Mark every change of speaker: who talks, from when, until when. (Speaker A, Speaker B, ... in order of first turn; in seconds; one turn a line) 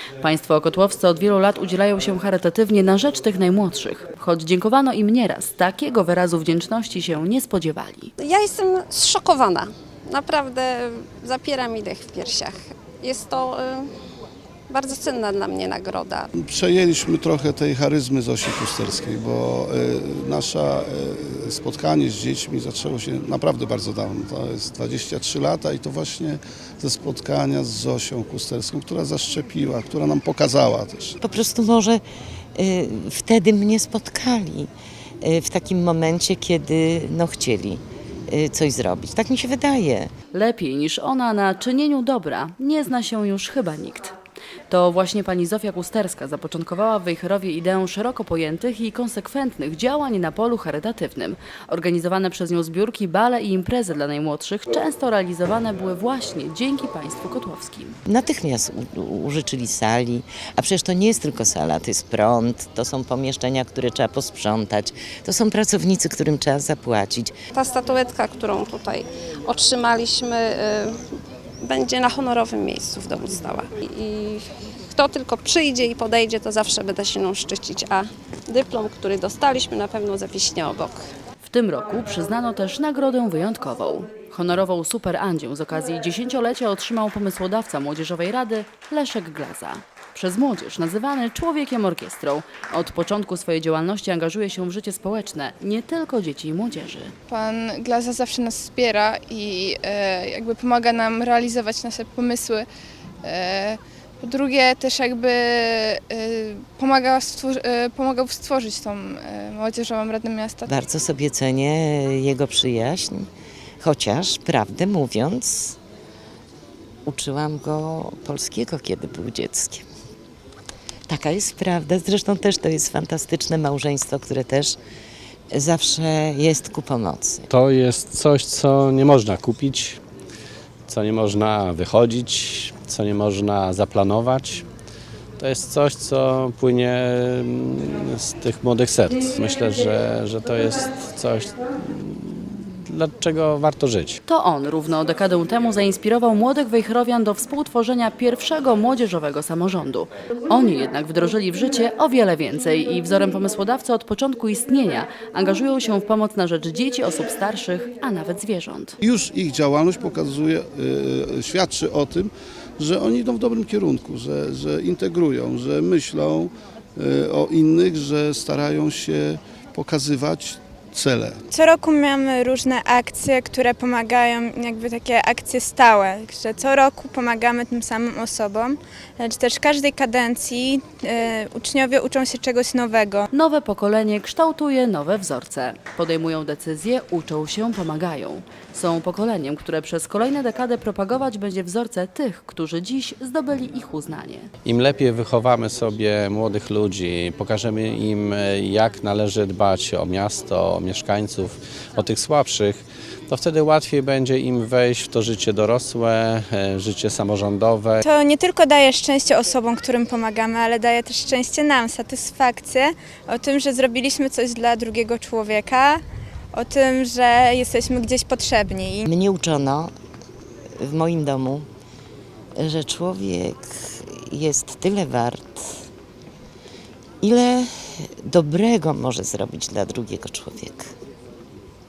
Speaker A: 0.2-8.1
Speaker B: 8.2-13.9
Speaker B: 14.7-16.3
Speaker C: 16.4-31.2
Speaker D: 31.2-32.0
Speaker D: 32.5-34.7
Speaker D: 35.2-40.1
Speaker A: 40.3-44.1
Speaker A: 44.7-58.0
Speaker D: 58.1-67.4
Speaker B: 67.5-71.0
Speaker B: 71.6-81.0
Speaker A: 81.4-97.1
Speaker E: 97.3-102.7
Speaker E: 103.2-110.7
Speaker D: 110.7-113.3
Speaker D: 113.8-115.8
Speaker D: 117.0-119.9
Speaker D: 121.1-124.8
Speaker D: 125.5-127.5
Speaker F: 127.5-130.0
Speaker F: 130.9-134.7
Speaker F: 135.4-144.2
Speaker A: 144.3-159.0
Speaker C: 159.0-171.4
Speaker G: 171.5-183.3
Speaker A: 183.3-194.5
Speaker F: 194.7-208.0
Speaker G: 208.0-216.0
Speaker G: 216.5-219.0
Speaker D: 219.1-219.9
Speaker D: 220.8-221.7
Speaker D: 222.6-225.9
Speaker D: 227.2-230.9